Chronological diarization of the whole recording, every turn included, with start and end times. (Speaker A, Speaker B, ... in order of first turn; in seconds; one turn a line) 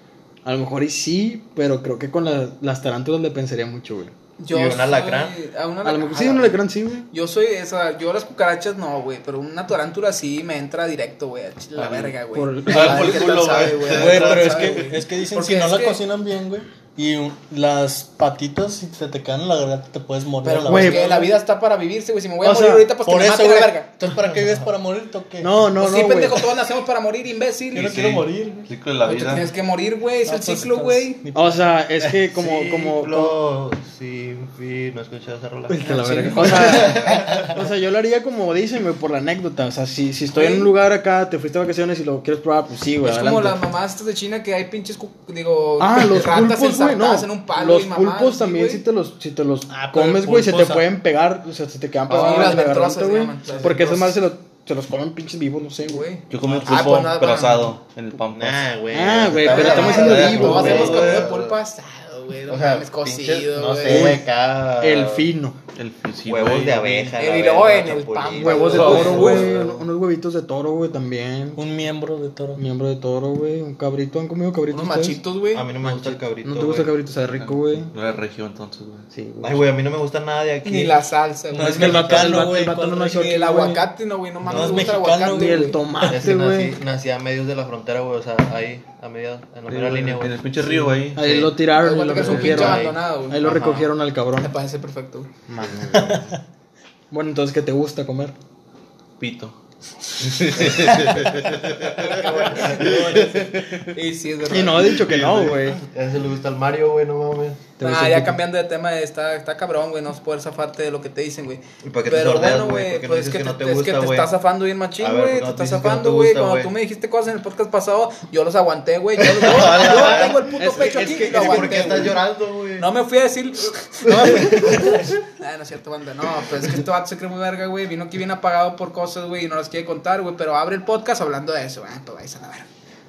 Speaker A: 0.5-4.2
Speaker B: 4.4-6.6
Speaker C: 4.5-5.4
Speaker A: 5.8-7.1
Speaker B: 7.1-16.0
Speaker D: 11.8-14.8
Speaker A: 12.3-13.3
Speaker C: 13.3-13.9
Speaker E: 13.9-21.3
Speaker B: 20.4-23.9
Speaker A: 20.6-21.3
Speaker A: 22.4-22.9
Speaker E: 23.1-25.6
Speaker A: 25.4-26.4
Speaker B: 25.8-28.0
Speaker E: 27.7-28.7
Speaker D: 27.8-29.5
Speaker B: 29.1-31.2
Speaker E: 30.2-32.2
Speaker A: 31.3-33.4
Speaker C: 32.3-37.6
Speaker A: 35.7-43.6
Speaker B: 35.9-37.0
Speaker E: 35.9-36.8
Speaker B: 40.3-40.7
Speaker B: 43.0-48.8
Speaker A: 45.8-56.0
Speaker E: 49.7-50.9
Speaker B: 52.1-54.0
Speaker C: 53.6-54.1
Speaker B: 55.8-57.8
Speaker D: 56.3-58.7
Speaker C: 58.3-61.6
Speaker A: 58.9-61.0
Speaker B: 59.4-64.2
Speaker D: 59.5-61.3
Speaker C: 62.5-65.3
Speaker A: 63.9-65.6
Speaker D: 65.8-67.2
Speaker C: 66.3-69.8
Speaker B: 67.2-69.5
Speaker A: 68.4-71.6
Speaker D: 68.8-69.5
Speaker E: 71.6-72.6
Speaker A: 72.6-75.2
Speaker B: 74.7-75.7
Speaker C: 75.5-76.9
Speaker A: 75.8-77.9
Speaker D: 77.9-79.1
Speaker A: 79.1-79.7
Speaker C: 79.4-81.0
Speaker B: 80.6-85.8
Speaker E: 81.5-83.3
Speaker A: 81.6-83.8
Speaker E: 84.5-86.1
Speaker C: 84.5-85.0
Speaker A: 85.3-86.8
Speaker C: 86.0-91.5
Speaker D: 89.7-91.5
Speaker A: 91.2-94.5
Speaker B: 91.7-93.7
Speaker C: 92.1-93.9
Speaker B: 94.4-95.3
Speaker A: 95.5-96.3
Speaker C: 95.6-96.3
Speaker E: 96.0-96.3
Speaker A: 97.1-98.3
Speaker D: 99.2-99.6
Speaker D: 100.2-102.2
Speaker C: 100.5-103.9
Speaker B: 102.0-105.0
Speaker E: 102.5-103.4
Speaker A: 104.5-105.8
Speaker C: 105.0-107.7
Speaker A: 107.8-108.4
Speaker B: 107.8-122.2
Speaker C: 111.8-114.3
Speaker C: 115.0-116.7
Speaker C: 119.2-122.9
Speaker A: 119.7-122.2
Speaker B: 122.8-132.7
Speaker C: 124.1-125.2